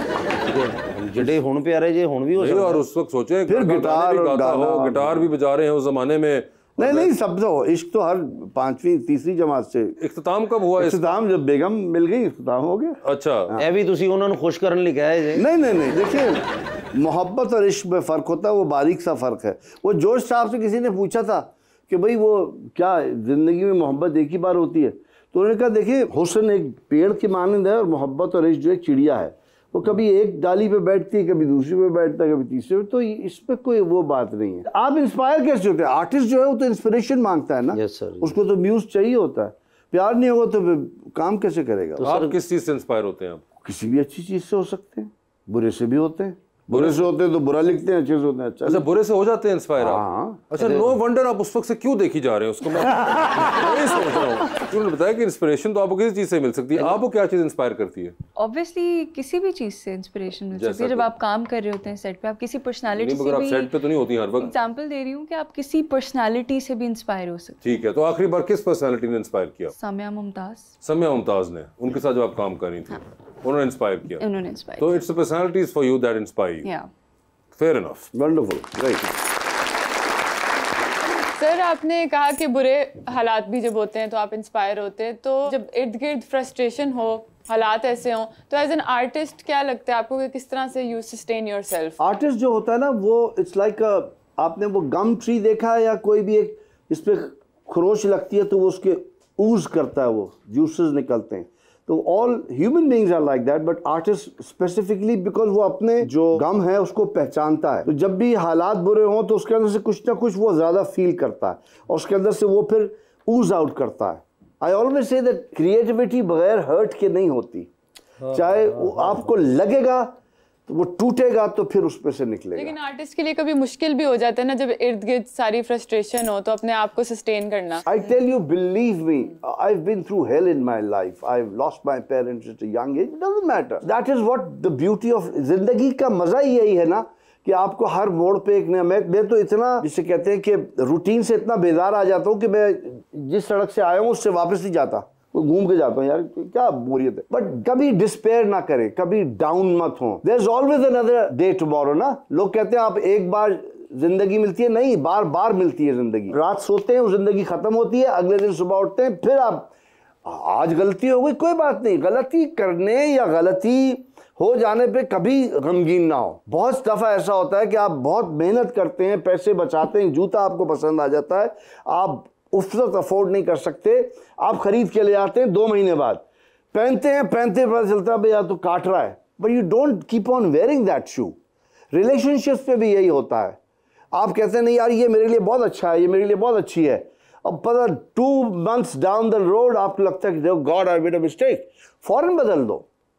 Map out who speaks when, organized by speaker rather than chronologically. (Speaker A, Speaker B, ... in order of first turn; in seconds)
Speaker A: 0.4-2.9, 13.6-15.4, 37.7-38.4, 42.0-42.4, 50.5-50.9
Speaker B: 1.1-1.4, 3.5-5.3, 6.8-10.0, 10.8-13.0, 15.4-16.4, 16.9-42.0, 43.6-48.9, 49.8-50.5, 78.1-79.1, 92.0-117.7, 118.3-120.1, 120.7-122.8, 127.8-159.7, 160.2-181.3, 181.9-183.6, 184.1-192.9
Speaker C: 2.4-7.1, 10.0-11.2, 13.1-13.5, 42.0-43.4, 46.7-47.0, 48.6-58.1, 60.5-61.1, 62.9-64.5, 67.6-69.7, 70.8-76.7, 77.6-78.1
Speaker D: 58.4-63.7, 64.3-67.6, 69.7-70.7, 74.2-75.0, 76.6-76.9
Speaker E: 81.4-92.0, 122.5-127.8